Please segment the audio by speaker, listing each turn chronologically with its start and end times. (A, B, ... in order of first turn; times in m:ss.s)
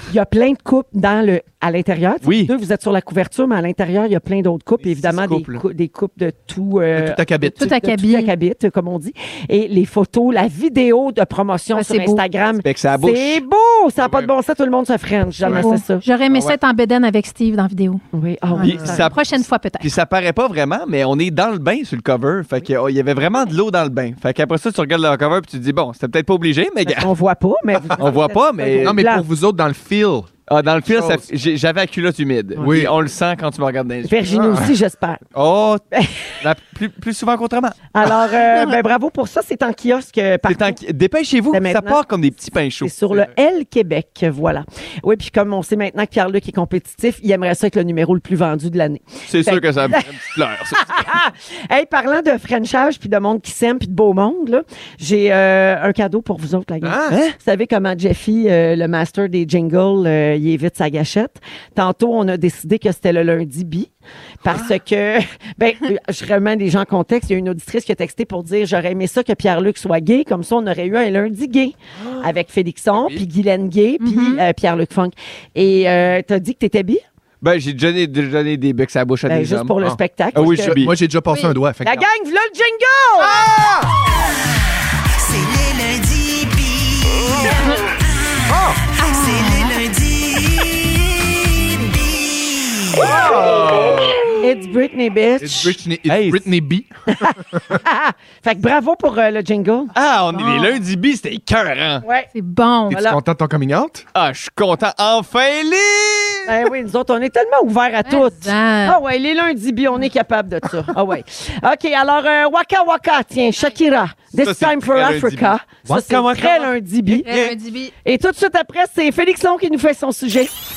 0:00.1-0:16.0 A
0:02.2-0:02.5 B
0:04.8-0:05.6 B
0:06.9-0:07.6 C
0:07.6-0:08.3 D
0:11.7-0:12.2 D
0:12.6-0:13.4 B
0:14.0-0:14.3 C
0:15.4-0:18.0 D
0:16.3-0:16.6 B
0:18.1-0:19.2 A
0:18.5-0:19.9 D
0:18.6-0:27.1 B
0:26.8-0:29.2 A
0:28.0-0:29.0 B
0:28.8-0:30.3 C
0:30.5-0:34.2 B
0:30.9-0:31.3 C
0:32.6-0:33.0 C
0:34.1-0:35.2 A
0:34.3-0:34.7 C
0:35.3-0:35.8 B
0:35.9-0:36.3 A
0:36.4-0:37.8 B
0:37.9-0:40.8 A
0:40.4-0:42.9 B
0:41.5-0:42.0 A
0:42.8-0:50.1 A
0:49.3-0:51.1 B
0:50.8-1:03.9 A
0:56.8-0:57.2 C
0:57.1-0:57.4 B
1:04.4-1:17.0 A
1:13.0-1:13.2 C
1:14.0-1:14.4 D
1:17.4-1:19.7 B
1:19.3-1:20.8 A
1:19.8-1:22.1 C
1:20.3-1:21.0 B
1:21.8-1:23.4 A
1:23.3-1:23.9 C
1:25.2-1:27.6 E
1:28.5-1:28.8 C
1:29.0-1:29.8 D
1:29.1-1:30.7 E
1:32.9-1:34.2 C
1:33.0-1:35.7 A
1:35.4-1:37.8 C
1:36.1-1:36.5 B
1:37.1-1:39.9 A
1:40.0-1:42.0 B
1:40.4-1:40.7 D
1:42.0-1:42.3 A
1:42.3-1:43.1 D
1:42.9-1:44.0 C
1:42.9-1:43.2 A
1:44.2-1:46.6 B
1:46.5-1:57.3 A
1:48.0-1:49.0 D
1:54.4-1:57.6 B
1:57.2-1:57.9 D
1:58.0-2:00.5 A